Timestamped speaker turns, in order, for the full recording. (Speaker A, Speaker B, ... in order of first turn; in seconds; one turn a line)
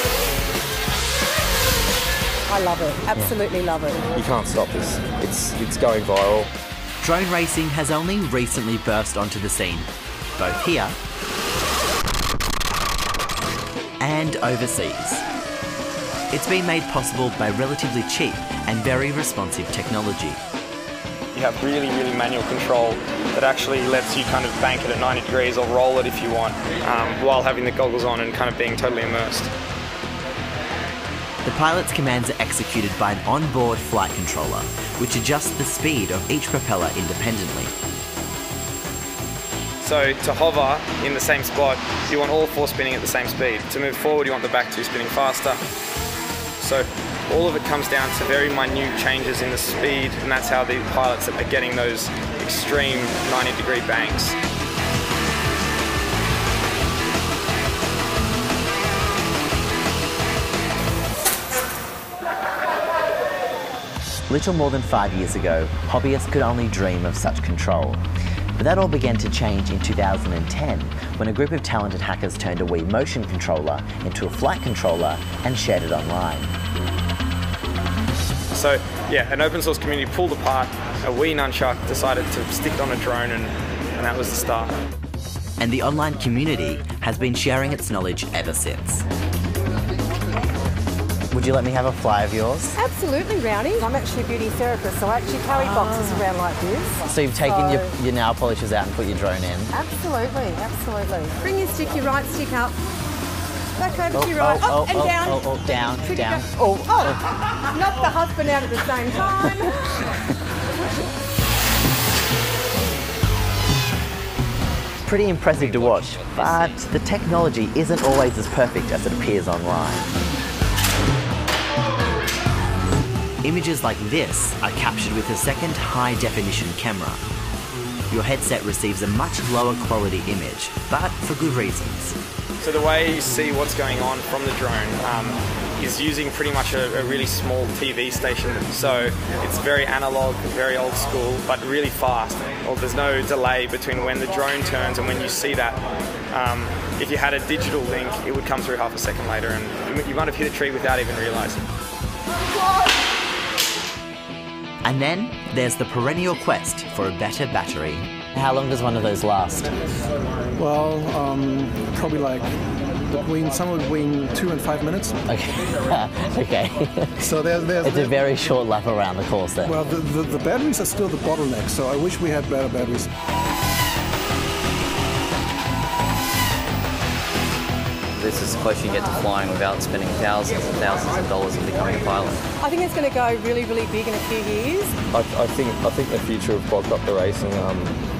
Speaker A: 2.5-4.1
Speaker B: 4.1-6.5
Speaker C: 7.0-10.9
Speaker C: 14.0-15.2
Speaker C: 16.3-20.4
Speaker D: 21.3-29.5
Speaker C: 31.4-37.7
Speaker D: 39.8-45.6
Speaker D: 46.6-54.4
Speaker C: 64.3-68.0
Speaker C: 68.5-76.5
Speaker D: 78.5-84.8
Speaker C: 85.6-89.0
Speaker C: 91.3-92.8
Speaker A: 92.7-97.9
Speaker C: 95.5-96.2
Speaker C: 97.0-99.7
Speaker A: 99.7-102.8
Speaker A: 103.8-109.9
Speaker C: 104.1-107.2
Speaker C: 115.0-120.1
Speaker C: 123.4-127.2
Speaker C: 128.1-132.2
Speaker D: 132.6-151.7
Speaker C: 154.8-159.7
Speaker E: 160.6-162.5
Speaker E: 163.1-165.2
Speaker C: 165.3-167.2
Speaker E: 167.2-168.2
Speaker C: 167.8-169.8
Speaker E: 169.6-173.1
Speaker F: 178.2-182.4
Speaker A: 182.6-184.9
Speaker B: 185.1-187.9